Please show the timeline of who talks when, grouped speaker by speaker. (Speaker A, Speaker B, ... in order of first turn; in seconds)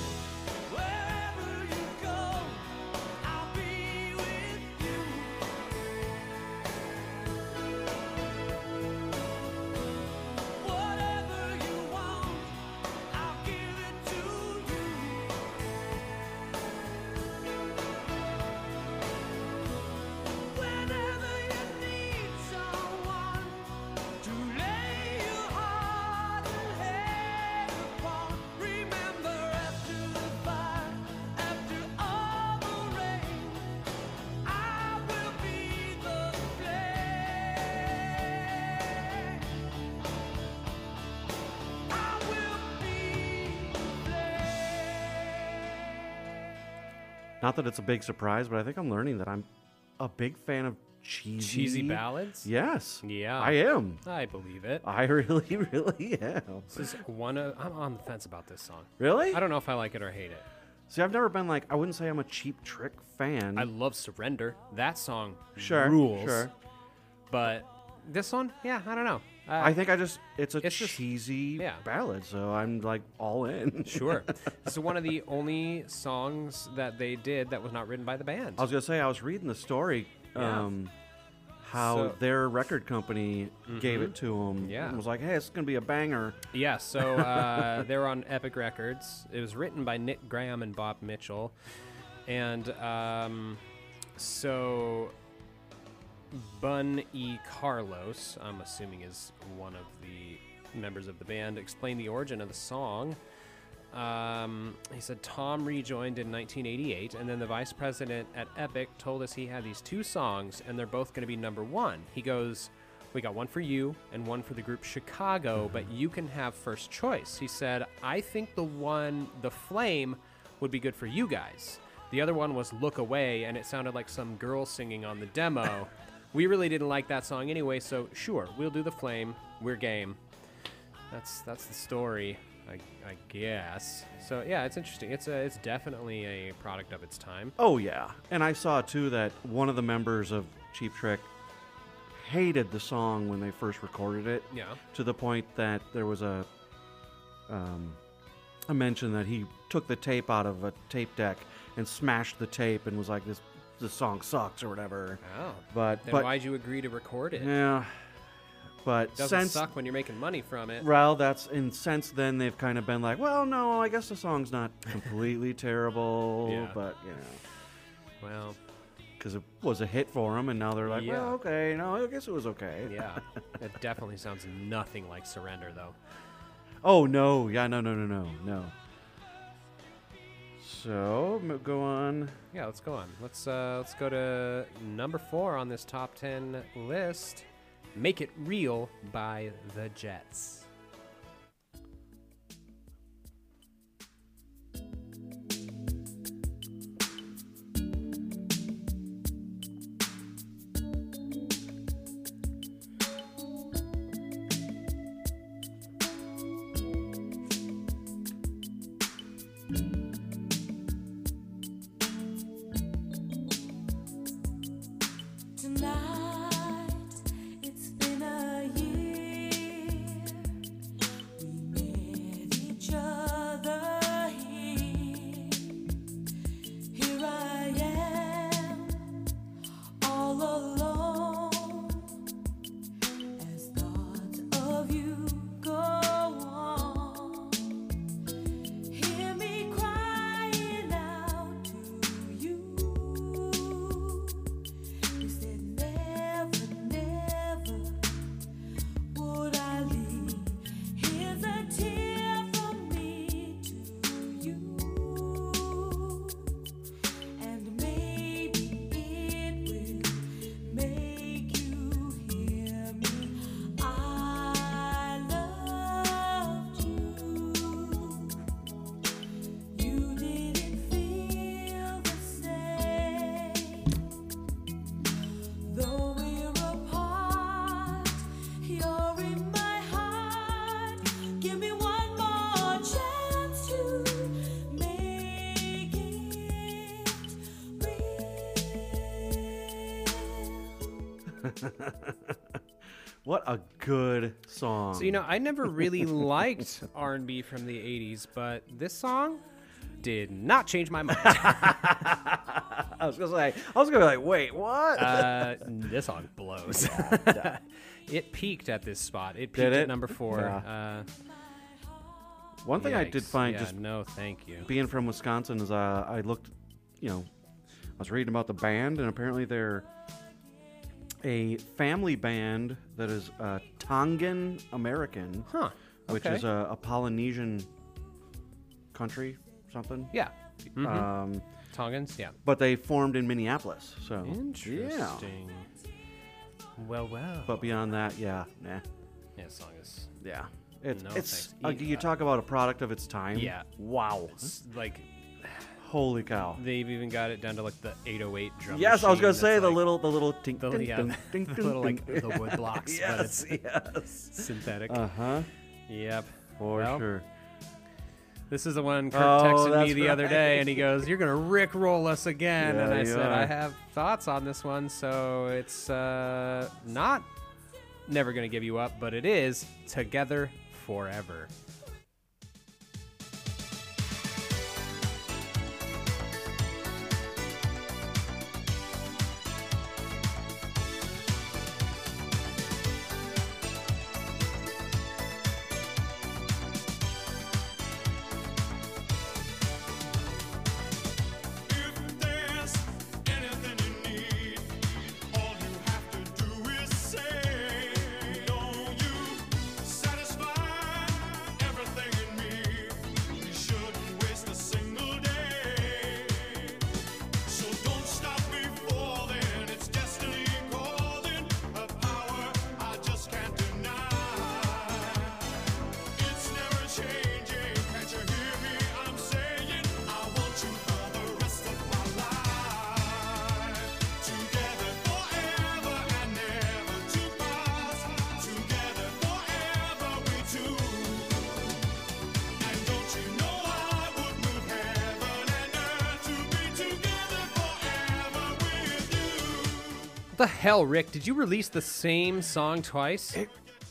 Speaker A: 0.7-5.4, 10.6-12.6, 13.1-15.4, 20.4-33.7, 34.4-39.4, 41.9-45.5
Speaker B: 47.4-54.0, 54.8-56.9, 59.0-59.4, 60.9-63.7, 65.5-66.5, 69.6-74.3, 78.6-80.9, 81.6-86.4, 87.0-87.8, 137.6-141.3, 142.1-146.5, 147.5-148.0, 148.7-156.3, 157.3-157.9, 158.8-159.7, 160.8-167.4, 169.2-173.2, 176.8-178.7, 180.6-182.4, 291.3-292.6, 293.2-296.4, 301.1-305.6, 306.7-307.6, 309.5-310.6, 312.6-313.8, 314.6-317.3, 318.0-319.9, 321.2-325.5, 326.1-327.7, 328.9-330.1, 330.8-331.4, 332.4-335.3, 337.4-338.8, 340.2-344.5, 345.8-346.6, 348.7-355.5, 356.6-357.2, 359.1-361.0, 362.6-363.5
Speaker C: 51.4-52.5, 53.0-54.8, 56.7-60.4, 63.5-66.5, 67.3-69.8, 70.6-71.0, 71.6-71.8, 73.8-78.7, 80.3-80.7, 81.7-82.2, 83.7-85.0, 86.5-91.5, 92.2-93.6, 94.2-95.1, 96.3-103.2, 103.9-130.2, 131.1-137.6, 144.5-144.8, 155.2-157.5, 159.2-160.9, 166.4-166.8, 168.2-168.6, 170.8-171.4, 172.8-176.0, 182.5-190.7, 294.9-299.4, 300.0-301.8, 304.9-311.1, 312.8-314.7, 325.5-326.5, 330.1-331.1, 331.7-332.4, 334.2-335.7, 336.8-337.7, 339.4-340.1, 340.9-342.1, 343.3-343.7, 344.3-345.7, 346.5-349.9, 350.6-353.6, 354.1-355.0, 355.9-357.1, 358.5-367.3, 368.1-371.5, 440.3-443.4
Speaker D: 215.6-220.5, 221.4-225.8, 226.9-229.1, 230.0-232.2, 233.4-237.7, 238.9-244.4, 245.2-248.2, 249.1-256.5, 257.4-268.4, 269.7-273.9, 275.6-287.2, 287.8-290.4
Speaker E: 391.7-406.8, 407.4-415.5, 416.1-431.5, 432.6-440.0